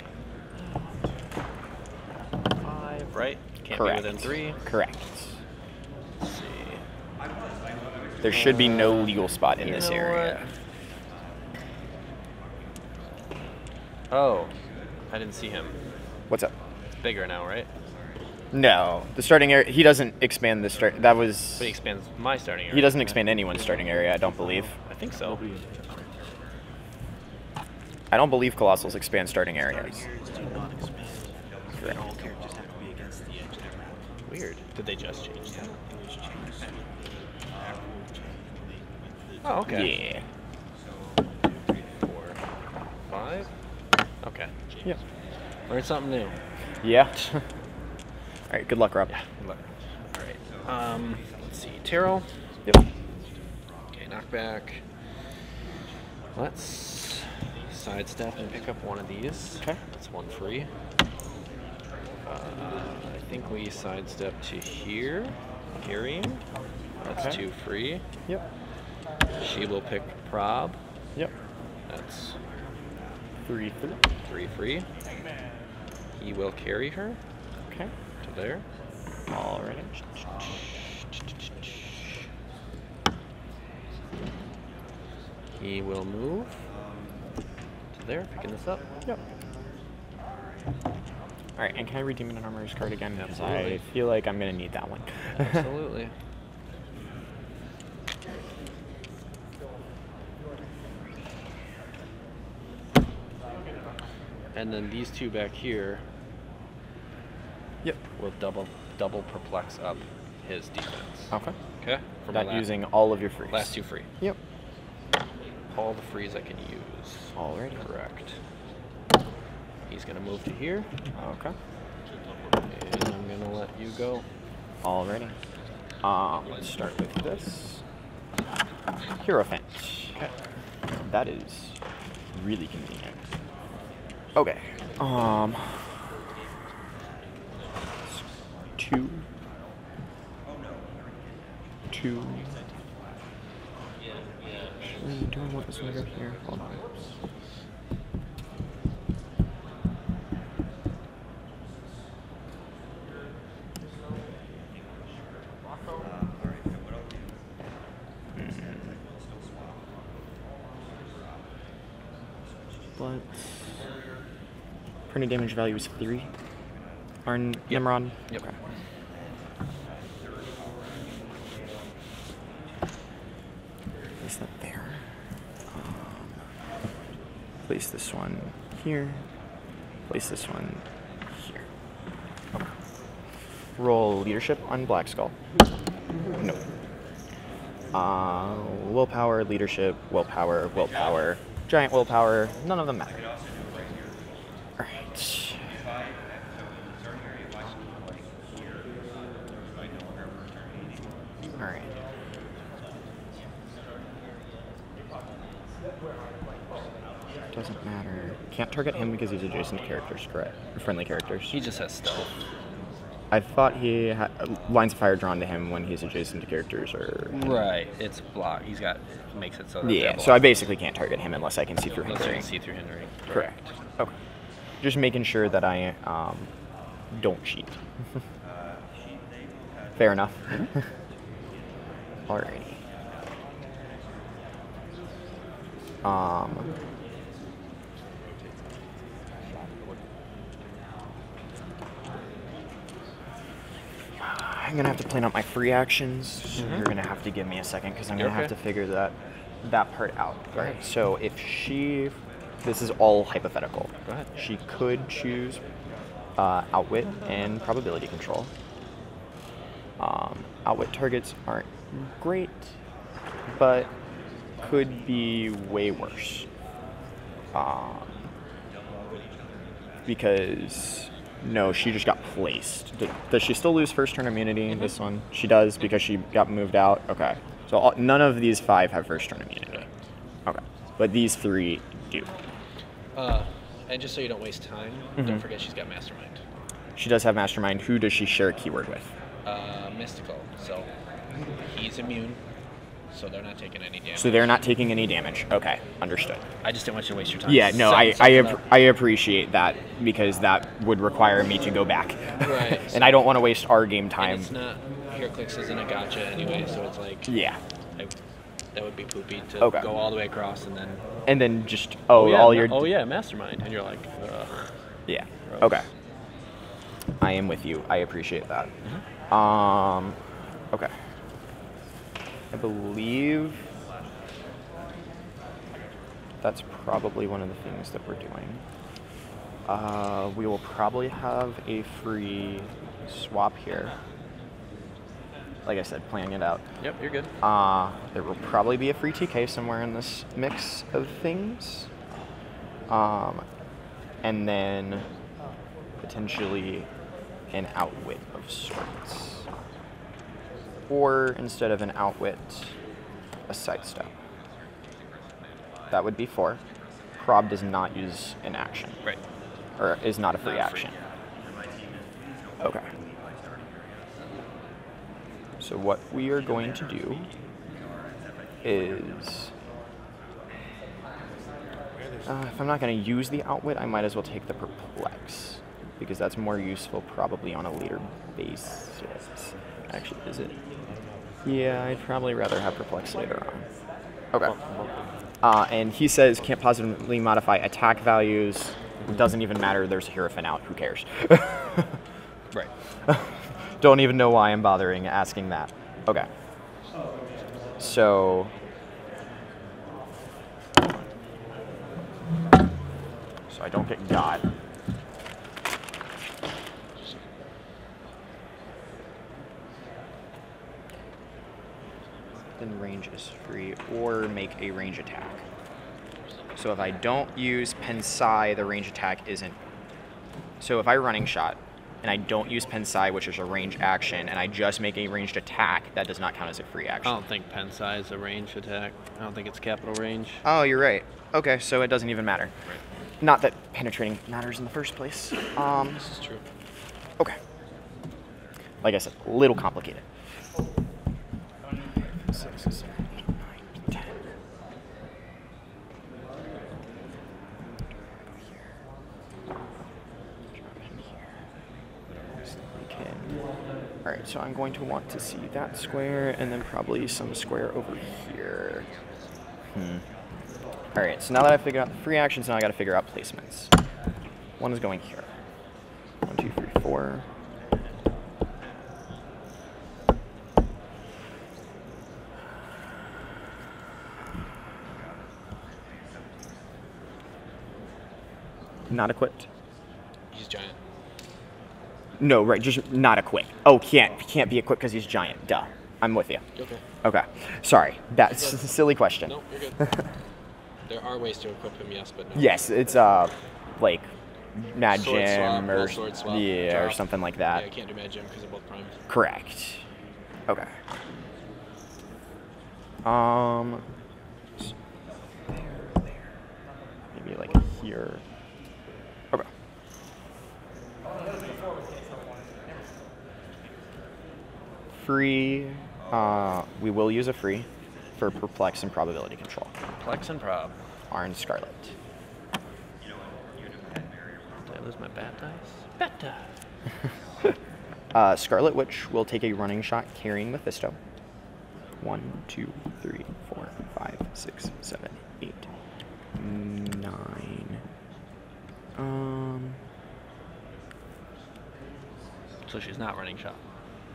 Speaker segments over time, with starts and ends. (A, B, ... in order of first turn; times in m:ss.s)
0:02.6-0:04.6 A
0:03.7-0:05.3 B
0:06.2-0:06.8 A
0:08.2-0:10.4 B
0:08.3-0:10.5 A
0:14.1-0:14.5 A
0:15.1-0:15.8 A
0:17.0-0:17.7 A
0:18.5-0:21.7 B
0:21.6-0:23.2 A
0:22.7-0:24.7 B
0:24.9-0:25.4 A
0:25.2-0:26.1 C
0:28.1-0:30.0 B
0:29.7-0:34.0 C
0:34.3-0:35.8 A
0:39.4-0:40.0 A
0:39.7-0:40.2 B
0:42.0-0:42.4 A
0:43.1-0:43.5 A
0:44.2-0:44.5 A
0:45.7-0:46.4 A
0:46.8-0:47.4 B
0:48.5-0:49.1 B
0:49.1-0:52.3 A
0:54.0-0:54.8 A
0:56.4-1:00.7 A
1:02.3-1:06.4 A
1:07.0-1:08.0 A
1:07.1-1:07.4 B
1:09.4-1:10.8 A
1:11.9-1:12.4 A
1:13.5-1:14.0 B
1:14.3-1:14.9 A
1:16.2-1:17.2 A
1:18.2-1:18.6 A
1:19.3-1:20.1 B
1:25.6-1:26.5 A
1:28.0-1:28.8 A
1:31.6-1:35.6 B
1:33.2-1:33.8 A
1:35.3-1:36.1 A
1:44.6-1:46.0 A
1:48.2-1:52.7 A
1:52.3-1:54.4 B
1:53.5-1:54.1 A
1:55.7-1:58.3 A
1:57.4-1:57.8 B
1:59.9-2:00.9 A
2:01.2-2:01.5 B
2:02.6-2:04.3 A
2:04.8-2:05.3 B
2:06.0-2:07.8 B
2:06.6-2:06.9 A
2:09.2-2:10.2 B
2:11.1-2:11.8 B
2:12.3-2:13.2 B
2:14.4-2:15.8 B
2:18.8-2:19.2 B
2:21.9-2:22.6 B
2:24.9-2:26.7 B
2:38.4-2:38.8 B
2:43.0-2:43.3 B
2:45.1-2:46.3 B
2:47.2-2:48.2 B
2:47.7-2:48.4 A
2:54.2-2:55.0 B
2:55.7-2:56.4 B
2:57.7-2:59.2 B
3:00.1-3:01.6 B
3:03.8-3:05.3 B
3:07.9-3:13.3 B
3:14.8-3:15.6 B
3:21.6-3:21.9 B
3:27.5-3:31.6 B
3:31.5-3:32.3 A
3:33.3-3:37.4 B
3:37.3-3:40.6 A
3:39.8-3:42.4 B
3:41.9-3:43.6 A
3:43.3-3:44.1 B
3:44.8-3:46.5 B
3:47.1-3:47.7 B
3:50.0-3:50.7 B
3:52.3-3:52.8 B
3:56.0-3:56.7 B
3:59.6-3:59.9 C
4:04.2-4:15.6 B
4:06.6-4:06.8 A
4:08.2-4:08.5 A
4:10.5-4:10.8 A
4:16.4-4:18.5 B
4:20.0-4:22.7 B
4:23.5-4:23.9 B
4:24.6-4:26.5 B
4:27.5-4:28.2 B
4:30.1-4:39.8 B
4:40.5-4:42.3 B
4:43.2-4:46.4 A
4:47.0-4:49.1 B
4:49.4-4:50.9 A
4:51.7-4:52.4 A
4:53.1-4:54.5 A
4:54.2-4:56.4 B
4:56.6-4:58.6 A
4:57.5-5:04.5 B
5:02.4-5:03.2 A
5:04.2-5:07.3 A
5:07.3-5:07.6 B
5:08.7-5:11.0 A
5:09.6-5:09.9 B
5:11.3-5:12.9 B
5:12.2-5:14.7 A
5:15.1-5:15.8 B
5:15.5-5:15.8 A
5:17.2-5:18.7 B
5:19.3-5:20.2 B
5:22.5-5:23.6 B
5:26.4-5:28.6 B
5:29.7-5:33.9 B
5:35.6-5:36.6 B
5:36.8-5:37.3 A
5:37.4-5:41.9 B
5:42.9-5:43.4 B
5:44.2-5:45.1 B
5:46.0-5:46.9 B
5:47.5-5:49.4 B
5:50.9-5:52.7 B
5:53.5-5:54.1 B
5:55.9-5:56.6 B
5:57.2-5:59.0 B
5:59.8-6:00.9 B
6:00.4-6:00.9 A
6:05.6-6:07.3 B
6:08.6-6:09.5 B
6:12.3-6:20.6 B
6:21.4-6:23.6 B
6:25.4-6:31.9 B
6:33.8-6:36.3 B
6:37.8-6:38.5 B
6:43.5-6:44.4 B
6:52.6-6:55.4 B
6:56.6-6:59.6 B
7:00.6-7:07.2 B
7:07.0-7:10.4 A
7:10.4-7:12.5 B
7:13.2-7:16.0 B
7:16.0-7:16.4 A
7:18.8-7:20.0 B
7:22.3-7:22.9 B
7:23.4-7:24.0 B
7:30.6-7:31.2 B
7:32.6-7:33.3 B
7:34.0-7:38.9 B
7:39.8-7:40.0 B
7:41.0-7:43.7 B
7:44.6-7:45.3 B
7:46.3-7:47.2 B
7:58.9-7:59.5 B
8:00.3-8:00.8 A
8:02.2-8:06.4 B
8:06.6-8:06.8 A
8:07.0-8:09.4 B
8:09.3-8:09.8 A
8:10.9-8:12.6 A
8:12.4-8:17.6 B
8:14.9-8:18.9 A
8:19.1-8:19.8 B
8:23.0-8:23.8 B
8:27.1-8:28.2 B
8:35.0-8:37.7 B
8:38.2-8:39.7 B
8:40.0-8:40.8 A
8:41.1-8:41.9 B
8:44.7-8:46.4 A
8:48.1-8:51.0 B
8:52.0-8:55.7 B
8:56.4-8:57.8 B
8:59.0-8:59.8 B
9:02.7-9:03.6 A